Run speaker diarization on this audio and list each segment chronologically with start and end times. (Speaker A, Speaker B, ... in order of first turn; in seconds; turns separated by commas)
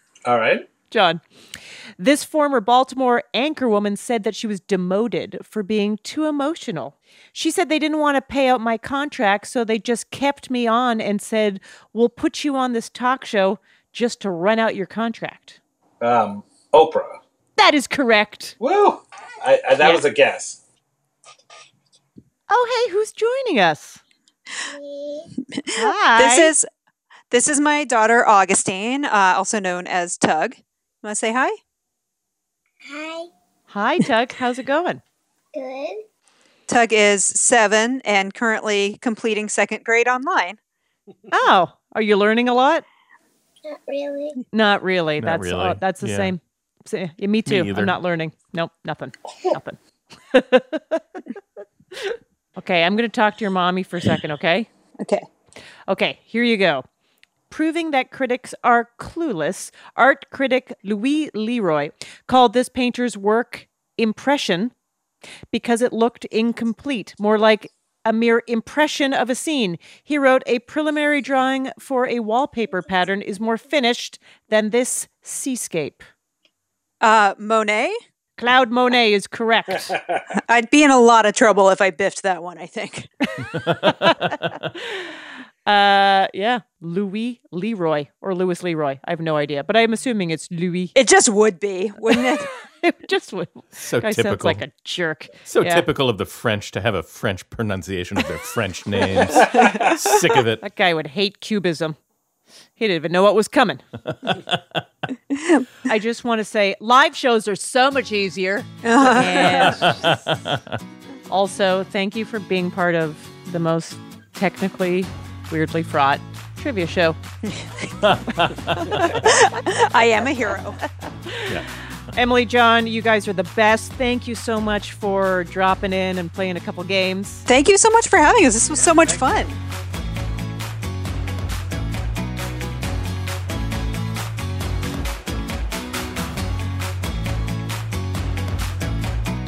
Speaker A: 0.2-0.7, Speaker B: 0.9-1.2, Speaker B: 2.0-15.6, Speaker A: 16.0-17.2, Speaker B: 17.6-18.6, Speaker A: 18.6-20.6, Speaker B: 22.5-24.0, Speaker C: 24.7-25.3, Speaker B: 25.7-26.5, Speaker D: 26.1-26.6, Speaker D: 27.3-31.6, Speaker C: 32.9-33.3, Speaker B: 33.7-35.0, Speaker C: 35.5-36.0, Speaker D: 36.7-40.6, Speaker B: 41.3-42.8, Speaker C: 43.6-44.4, Speaker B: 44.5-49.8, Speaker E: 45.2-46.3, Speaker E: 47.5-48.0, Speaker B: 50.3-51.0, Speaker B: 52.6-54.7, Speaker D: 55.0-55.2, Speaker B: 55.9-56.8, Speaker B: 57.5-64.7, Speaker B: 65.5-76.0, Speaker D: 77.0-78.0, Speaker B: 78.4-79.9, Speaker A: 79.9-80.2, Speaker D: 80.4-83.1, Speaker B: 85.7-90.9, Speaker D: 90.9-92.5, Speaker B: 92.1-95.8, Speaker E: 93.8-94.6, Speaker E: 95.5-100.6, Speaker A: 99.4-99.8, Speaker B: 100.6-102.0, Speaker B: 102.8-103.8, Speaker D: 105.3-105.7, Speaker B: 105.9-109.9, Speaker D: 108.8-109.8, Speaker E: 109.5-110.7, Speaker B: 111.3-117.2, Speaker E: 118.0-119.0, Speaker D: 119.0-120.8, Speaker B: 122.1-127.5, Speaker D: 127.5-129.6